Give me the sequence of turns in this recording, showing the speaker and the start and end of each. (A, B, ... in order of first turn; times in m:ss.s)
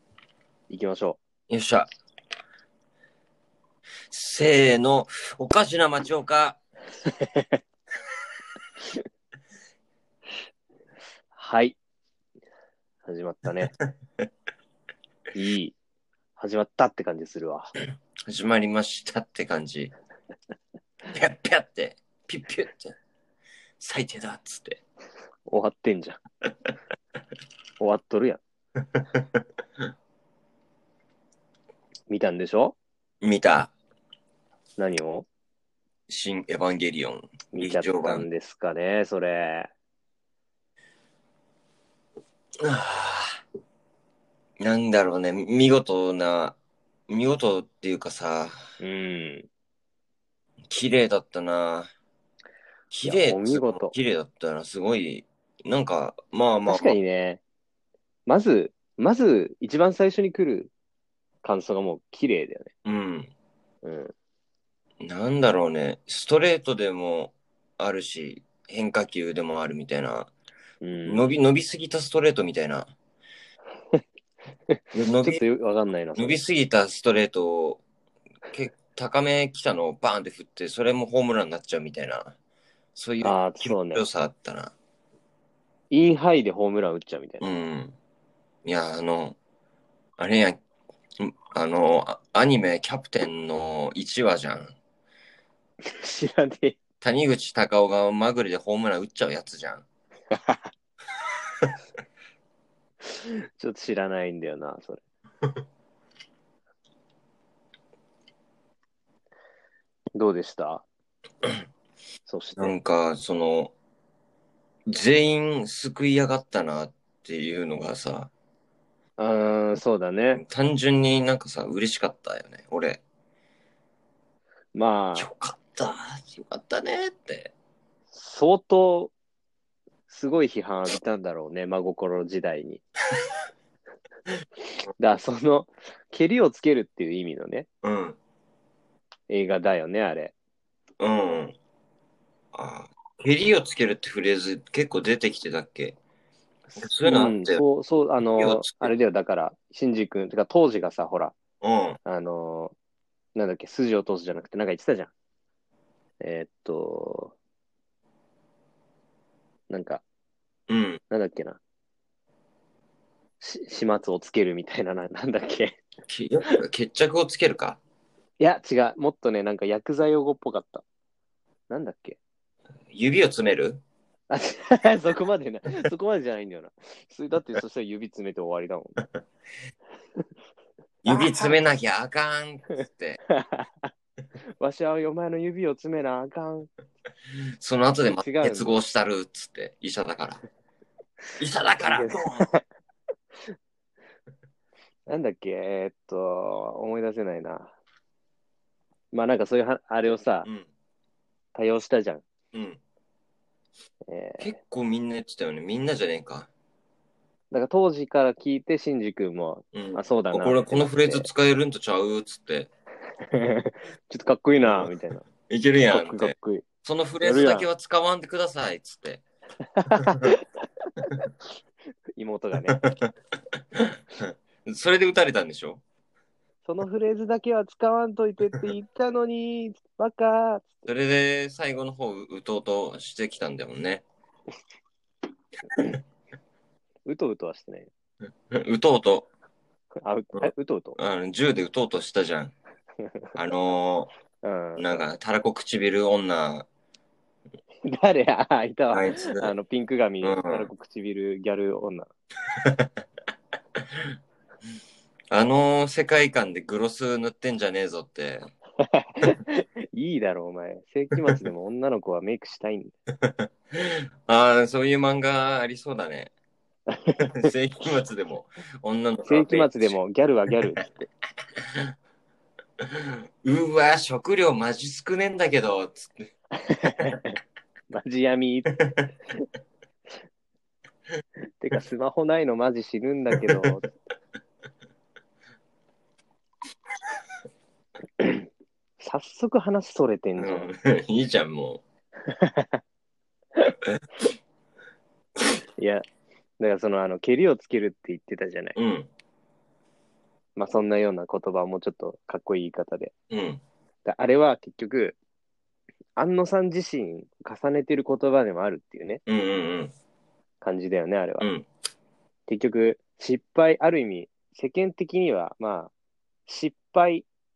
0:00.7-0:01.2 A
0:01.5-0:01.9 B
0:04.1-0:06.6 B
0:07.1-0:07.6 A
0:11.4-0:11.8 A
0:13.0-0:13.7 A
0:15.3-0:15.8 A
0:16.4-0:17.7 A
0:18.2-0:19.9 B
0:21.1-0:23.0 B
0:23.8-0:24.8 B
0:25.5-0:26.2 A
0:27.8-0:28.4 A
0:29.2-0:29.4 B
0:32.1-0:32.8 A
0:33.2-0:33.7 B
0:34.8-0:35.3 A
0:36.1-0:38.2 B
0:37.5-0:39.7 A
0:42.6-0:43.4 B
0:44.6-0:46.6 B
0:47.1-0:48.7 B
0:48.8-0:49.5 A
0:50.7-0:51.9 B
0:52.9-0:57.0 B
0:53.0-0:53.9 A
0:56.7-0:57.4 A
0:58.3-1:00.7 A
1:01.4-1:02.7 A
1:02.8-1:03.3 B
1:03.8-1:04.1 A
1:05.0-1:10.3 B
1:10.8-1:11.2 A
1:11.0-1:12.9 B
1:14.7-1:16.4 A
1:14.9-1:15.4 B
1:16.2-1:17.8 B
1:18.5-1:22.4 B
1:23.0-1:24.7 B
1:23.2-1:24.0 A
1:25.9-1:27.4 A
1:27.4-1:28.0 B
1:28.6-1:29.4 B
1:30.2-1:30.6 B
1:31.2-1:34.8 B
1:35.8-1:36.8 A
1:37.0-1:39.8 B
1:40.3-1:40.7 A
1:43.0-1:45.0 A
1:50.2-1:50.8 A
1:52.3-1:52.7 A
1:52.6-1:53.7 B
1:54.9-1:58.3 B
1:59.2-2:00.4 A
2:00.4-2:03.0 B
2:04.7-2:05.3 A
2:05.2-2:07.5 B
2:08.1-2:09.1 A
2:10.1-2:12.8 A
2:15.0-2:17.7 A
2:17.8-2:18.2 B
2:19.3-2:20.3 A
2:21.0-2:21.6 B
2:22.5-2:26.0 B
2:26.8-2:31.4 A
2:26.8-2:27.6 B
2:28.4-2:28.9 B
2:31.6-2:32.0 B
2:32.0-2:32.8 A
2:33.4-2:35.1 A
2:36.2-2:37.4 A
2:39.7-2:40.0 A
2:40.7-2:41.0 B
2:41.1-2:41.6 A
2:43.4-2:45.8 A
2:46.1-2:47.8 B
2:48.4-2:50.8 A
2:51.7-2:52.2 A
2:52.9-2:53.8 B
2:54.3-2:59.0 A
3:01.0-3:03.2 B
3:01.1-3:01.6 A
3:03.3-3:03.9 A
3:04.6-3:06.7 A
3:07.6-3:10.4 B
3:08.1-3:08.8 A
3:11.4-3:12.5 B
3:11.8-3:12.6 A
3:15.1-3:17.7 A
3:19.1-3:20.5 A
3:21.6-3:22.2 A
3:22.5-3:22.8 B
3:24.1-3:24.6 A
3:24.4-3:26.5 B
3:27.5-3:31.3 A
3:29.7-3:32.7 B
3:33.2-3:35.3 A
3:34.6-3:39.2 B
3:35.9-3:36.6 A
3:37.2-3:37.7 A
3:39.7-3:41.3 A
3:40.0-3:40.3 B
3:42.2-3:42.8 A
3:42.7-3:43.1 B
3:43.7-3:45.8 B
3:46.7-3:50.9 A
3:50.9-3:54.0 B
3:57.1-3:57.9 A
3:58.5-3:59.3 B
4:00.0-4:01.0 A
4:00.4-4:02.5 B
4:03.0-4:03.3 A
4:03.4-4:04.1 B
4:04.4-4:05.0 A
4:04.8-4:06.7 B
4:07.8-4:12.1 A
4:08.9-4:09.5 B
4:10.2-4:10.7 B
4:12.5-4:12.9 B
4:13.8-4:14.1 B
4:15.3-4:18.4 B
4:18.8-4:23.0 A
4:23.2-4:26.3 B
4:26.9-4:27.5 A
4:27.2-4:30.0 B
4:29.2-4:31.1 A
4:32.8-4:36.3 B
4:36.6-4:37.4 A
4:37.9-4:38.8 A
4:41.6-4:43.9 A
4:43.4-4:43.7 B
4:48.2-4:48.5 A
4:49.0-4:50.7 A
4:50.4-4:51.8 B
4:52.3-4:52.8 A
4:55.8-4:56.0 A
4:56.6-4:58.8 A
4:58.8-4:59.1 B
5:00.6-5:03.1 A
5:03.3-5:03.6 B
5:04.0-5:05.2 A
5:06.2-5:09.2 A
5:09.3-5:09.9 B
5:10.6-5:11.5 A
5:11.4-5:11.7 B
5:12.5-5:15.9 A
5:16.5-5:17.3 A